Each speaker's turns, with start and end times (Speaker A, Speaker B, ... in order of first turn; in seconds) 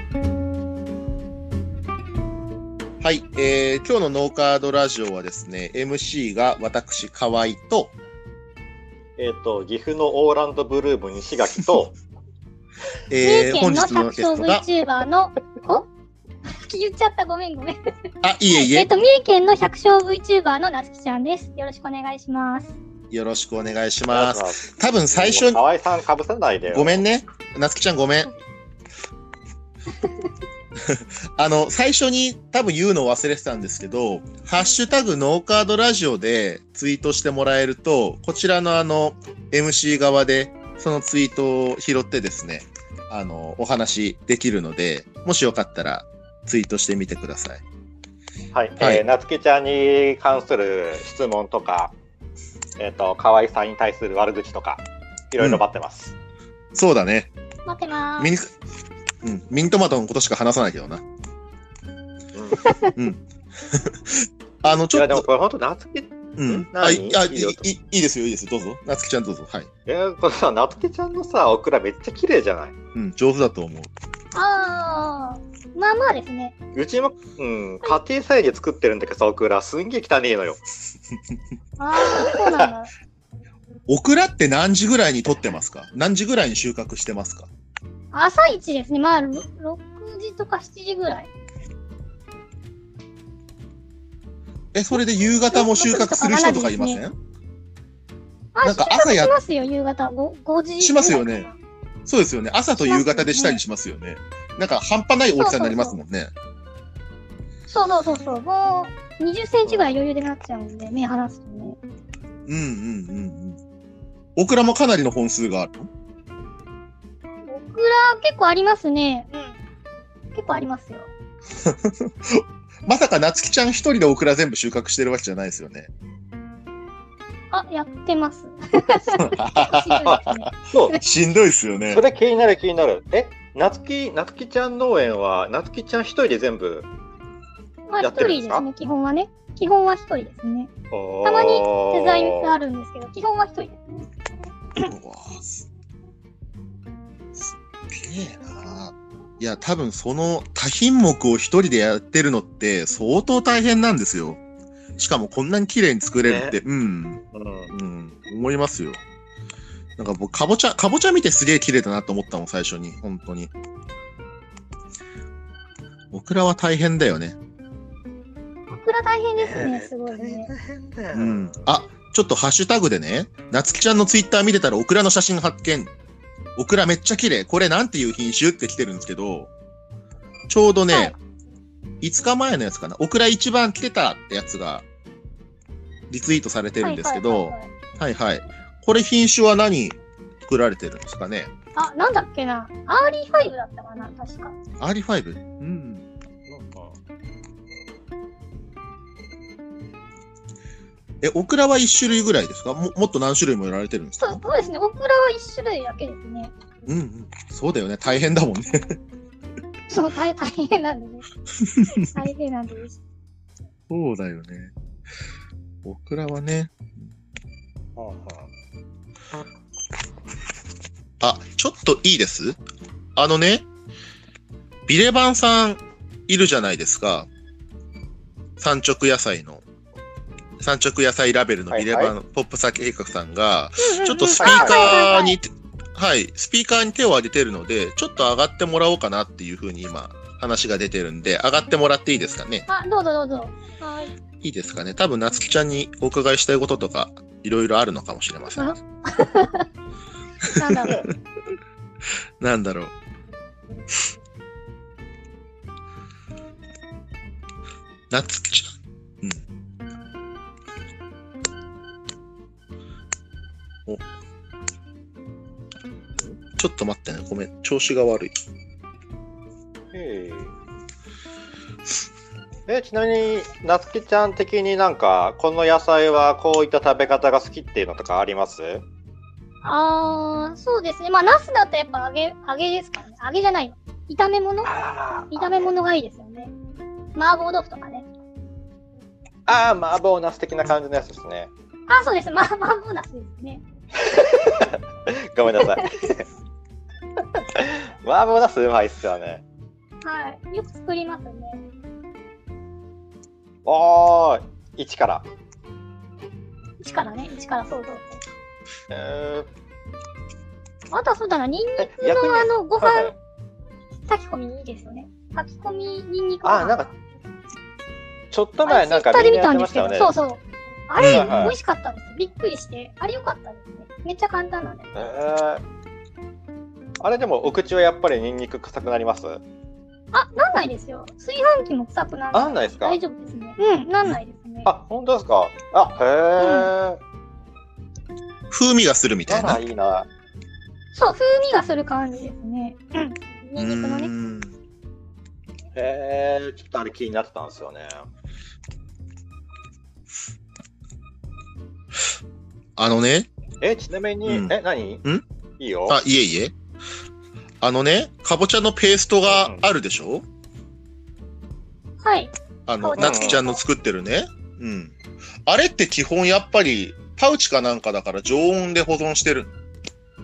Speaker A: 3.0-7.9, 13.1-14.6, 18.2-18.9, 23.1-25.6, 26.7-28.3, 30.8-47.6, 48.8-49.0, 56.7-57.3, 58.2-58.5, 59.2-61.0, 63.0-65.3, 66.4-69.7, 72.9-73.9, 83.9-87.5, 94.7-97.2, 98.6-99.4, 100.8-101.5, 102.0-106.3, 112.5-113.6, 114.3-115.9, 121.5-125.9, 129.1-132.0, 144.8-145.7, 147.4-154.4, 155.0-159.0, 160.0-163.5, 166.1-167.4, 171.1-175.9, 176.6-179.5, 180.5-181.2, 182.0-184.8, 186.1-191.5, 194.8-196.0, 201.2-204.4, 206.8-209.0, 211.6-212.1, 213.9-214.7, 215.8-217.1, 221.2-222.6, 223.2-223.6, 224.9-227.3, 228.6-229.6, 230.6-242.7, 244.4-248.8, 250.4-251.0, 252.4-252.9, 258.1-259.4, 266.6-268.3, 321.0-321.5, 338.5-339.6, 343.6-344.5, 352.8-353.3, 354.2-355.2, 355.9-356.5, 357.6-360.2, 362.7-364.9, 365.4-369.5
Speaker B: 9.2-11.9, 24.1-27.0, 48.5-51.9, 52.8-56.1, 62.3-62.7, 64.9-67.6, 69.8-72.7, 76.7-80.6, 82.1-82.7, 109.7-109.9, 130.7-131.0, 131.9-136.9, 138.0-138.7, 140.9-142.5, 156.2-156.6, 157.3-157.7, 169.4-171.6, 196.5-196.9, 218.0-218.5, 231.7-232.1, 234.4-235.0, 269.9-270.5, 272.7-278.8, 284.6-285.7, 289.5-291.5, 294.0-296.2, 297.5-299.4, 303.6-305.3, 308.9-309.5, 311.8-313.1, 316.4-316.9, 318.3-320.1, 321.1-321.6, 324.9-325.6, 327.0-329.4, 332.3-333.0, 334.6-337.0, 339.3-340.1, 345.7-348.1, 353.6-355.0, 355.6-356.0, 359.2-359.6, 363.0-363.4
Speaker C: 13.2-15.8, 16.5-17.8, 18.5-22.7, 57.6-58.3, 74.3-76.5, 81.8-82.9, 88.1-91.3, 95.5-97.0, 98.5-101.5, 102.8-103.6, 105.4-106.0, 107.7-111.8, 117.5-119.5, 120.3-121.1, 127.5-130.5, 137.9-140.7, 141.2-143.8, 168.7-170.5, 186.8-187.7, 191.8-194.5, 204.2-206.5, 209.9-211.3, 212.0-213.0, 233.8-235.4, 242.7-244.1, 248.6-249.7, 250.5-251.0, 279.6-284.7, 285.3-286.5, 287.1-288.1, 291.9-293.6, 300.0-301.6, 306.8-308.2, 310.9-313.1, 314.1-316.8, 318.6-324.9, 330.1-334.7, 336.4-336.7, 340.9-344.1, 362.0-363.6